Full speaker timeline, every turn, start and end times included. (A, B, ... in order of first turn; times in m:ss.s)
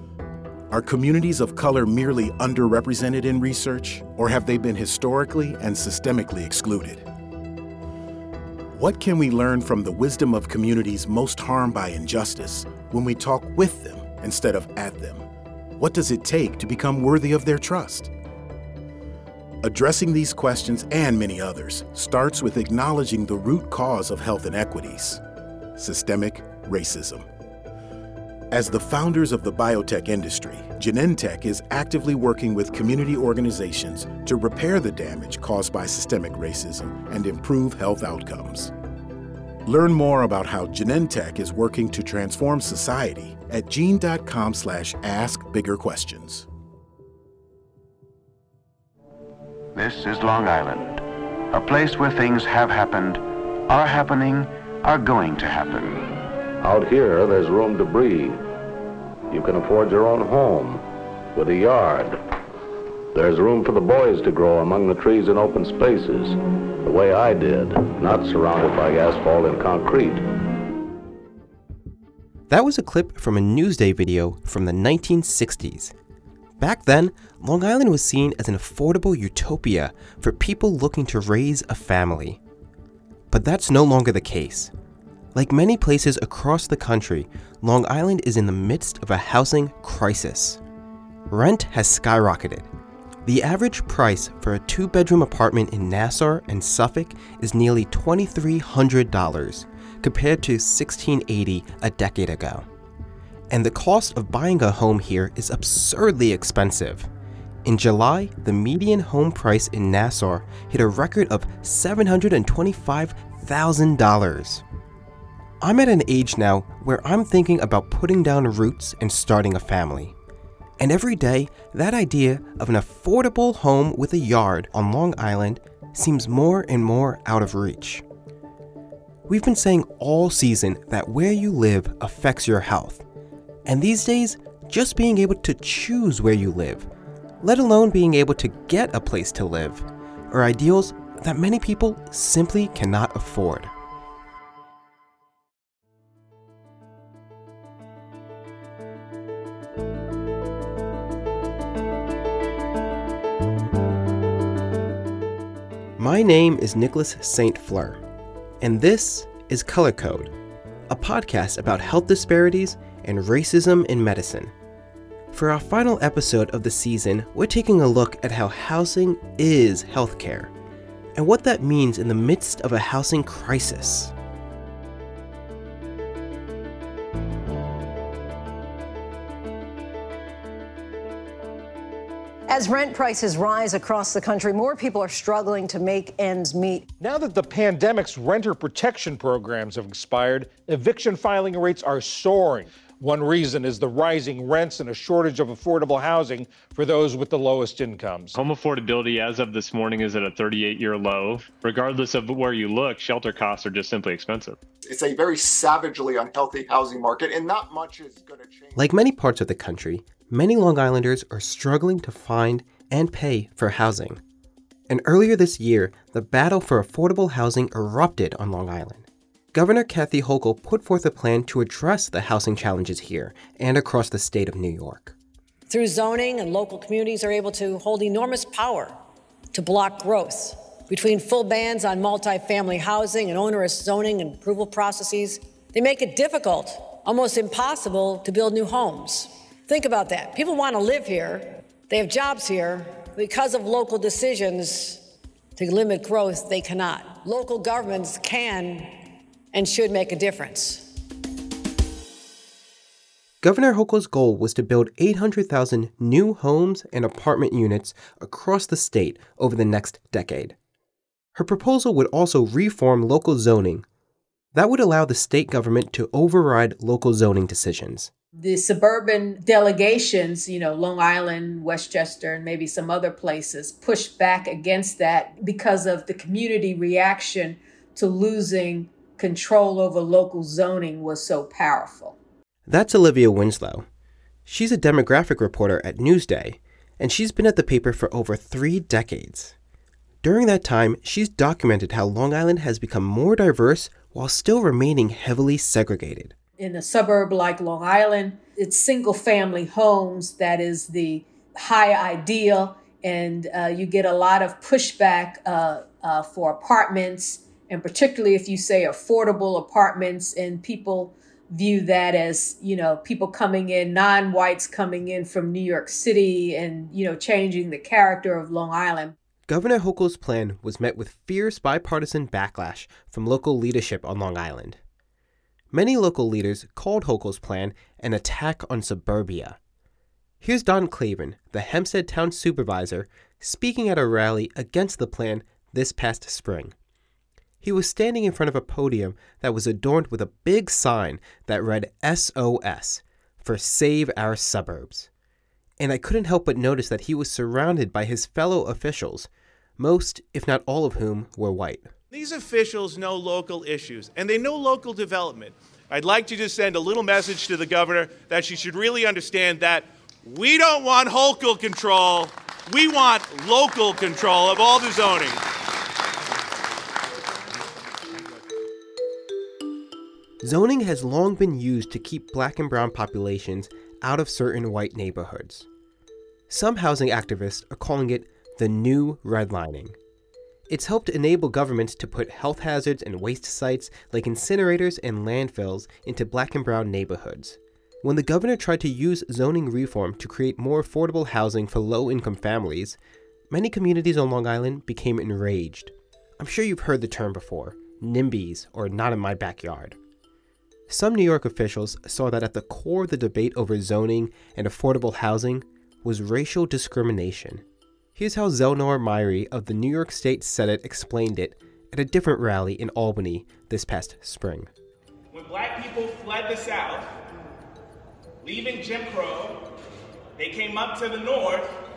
0:00.7-0:07.1 A
0:08.7-0:15.3 A
0:15.8-0:18.1 A
0:19.6-0:25.2 A
0:25.8-0:27.3 A
0:28.5-0:38.7 A
0:39.6-0:46.5 A
0:49.8-0:56.0 B
0:56.6-0:58.4 C
0:59.3-1:00.8 C
1:01.4-1:02.2 C
1:03.1-1:10.3 C
1:12.5-1:15.9 D
1:16.6-1:22.4 D
1:23.3-1:24.7 D
1:25.3-1:30.6 D
1:31.3-1:32.7 D
1:33.2-1:42.7 D
1:43.5-1:47.1 D
1:47.6-1:54.6 D
1:55.6-2:00.2 D
2:00.8-2:08.0 D
2:09.3-2:13.0 D
2:13.7-2:16.9 D
2:17.4-2:23.7 D
2:36.0-2:38.0 D
2:38.6-2:40.3 D
2:40.9-2:44.5 D
2:45.3-2:50.5 D
2:51.2-2:54.1 D
3:02.5-3:06.9 E
3:07.0-3:18.4 F
3:18.4-3:24.6 G
3:24.8-3:28.8 H
3:28.8-3:34.2 D
3:34.9-3:45.2 D
3:45.7-3:49.0 E
3:49.5-4:05.0 E
4:05.6-4:09.0 E
4:09.5-4:10.9 E
4:13.4-4:20.6 D
4:21.4-4:23.8 D
4:24.5-4:28.1 D
4:28.4-4:42.2 I
4:42.7-4:43.9 D
4:44.5-4:49.6 D
4:50.2-4:56.3 D
4:56.6-5:19.2 I
5:19.5-5:24.8 D
5:25.7-5:29.6 D
5:30.4-5:36.7 D
5:37.6-5:45.1 D
5:45.8-5:51.9 D
5:52.1-6:05.4 J
6:10.4-6:15.7 D
6:16.5-6:20.0 D
6:20.7-6:33.0 D
6:33.5-6:40.0 D
6:40.9-6:47.6 D
6:48.2-6:54.7 D
6:55.3-6:57.2 K
6:58.4-6:59.7 K
7:00.4-7:01.8 K